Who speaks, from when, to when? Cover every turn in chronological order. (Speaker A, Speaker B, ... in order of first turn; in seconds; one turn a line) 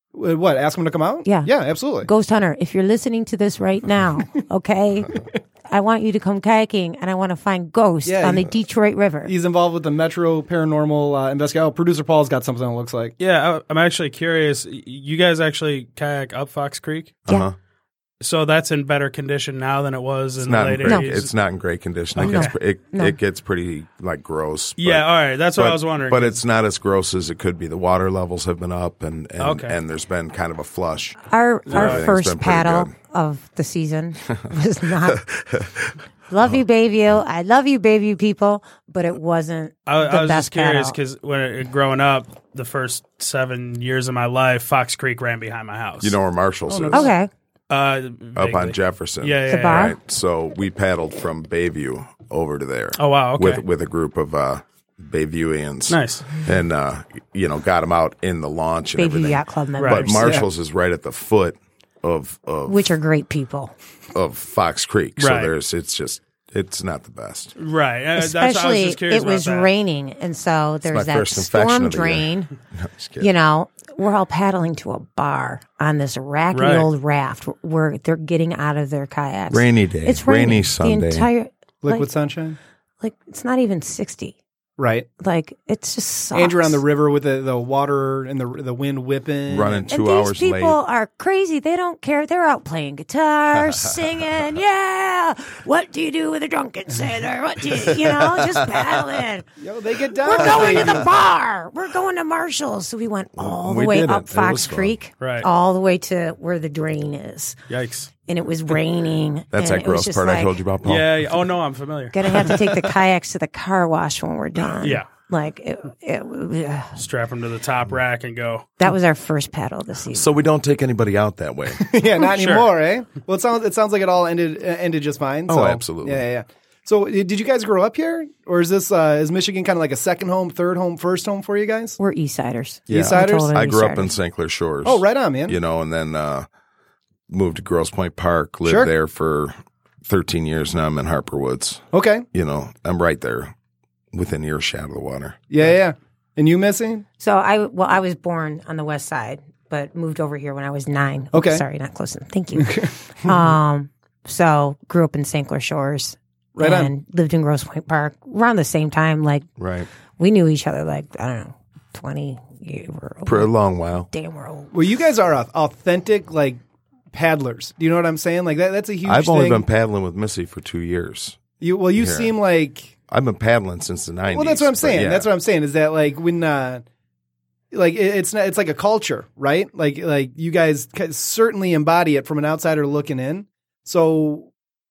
Speaker A: 0.1-2.1
Speaker B: 1.2-1.5
Speaker B: 2.0-9.3
Speaker A: 8.0-8.5
Speaker A: 9.2-13.1
Speaker C: 13.2-17.2
Speaker D: 17.2-17.6
Speaker C: 18.2-21.3
Speaker D: 20.4-32.9
Speaker B: 22.2-23.2
Speaker C: 22.2-22.5
Speaker C: 24.8-26.4
Speaker C: 29.4-29.8
Speaker B: 31.3-35.2
Speaker C: 31.7-32.1
Speaker D: 35.1-35.9
Speaker B: 36.3-41.0
Speaker C: 39.9-47.1
Speaker D: 46.0-47.1
Speaker B: 46.9-47.3
Speaker C: 47.7-49.9
Speaker D: 48.4-62.9
Speaker B: 49.5-49.9
Speaker C: 53.0-53.6
Speaker C: 55.9-56.3
Speaker B: 59.0-60.4
Speaker C: 59.8-60.1
Speaker B: 62.7-63.7
Speaker D: 64.1-67.5
Speaker C: 65.2-65.5
Speaker C: 67.6-69.7
Speaker B: 68.2-72.5
Speaker D: 70.9-73.3
Speaker B: 73.2-82.1
Speaker C: 76.5-76.9
Speaker D: 79.5-81.3
Speaker A: 81.8-82.6
Speaker B: 83.0-84.3
Speaker A: 84.8-85.1
Speaker B: 85.2-86.8
Speaker A: 86.3-89.9
Speaker D: 89.5-90.8
Speaker B: 89.9-99.5
Speaker D: 97.9-99.0
Speaker A: 99.6-101.0
Speaker B: 100.1-107.6
Speaker D: 100.4-101.0
Speaker D: 103.4-105.0
Speaker C: 105.2-105.5
Speaker C: 107.7-108.1
Speaker B: 108.3-110.5
Speaker D: 109.5-111.1
Speaker C: 110.8-112.2
Speaker B: 112.1-117.0
Speaker C: 114.8-115.1
Speaker C: 117.0-118.7
Speaker B: 118.8-120.3
Speaker D: 120.1-121.9
Speaker A: 121.8-132.0
Speaker C: 122.2-122.7
Speaker D: 125.5-126.2
Speaker B: 132.0-134.1
Speaker A: 132.9-133.5
Speaker D: 132.9-136.4
Speaker A: 134.8-135.6
Speaker D: 137.3-143.5
Speaker A: 138.6-138.9
Speaker A: 141.9-142.2
Speaker D: 144.1-145.4
Speaker A: 145.5-147.0
Speaker B: 147.2-159.5
Speaker A: 151.3-151.6
Speaker A: 152.6-153.3
Speaker A: 156.6-156.9
Speaker D: 159.6-159.9
Speaker B: 160.2-163.5
Speaker D: 163.2-164.1
Speaker B: 164.1-164.7
Speaker A: 164.7-166.6
Speaker A: 167.1-169.6
Speaker D: 169.0-171.4
Speaker A: 171.6-172.9
Speaker D: 171.9-172.3
Speaker D: 173.1-175.3
Speaker A: 174.3-176.8
Speaker A: 177.7-184.5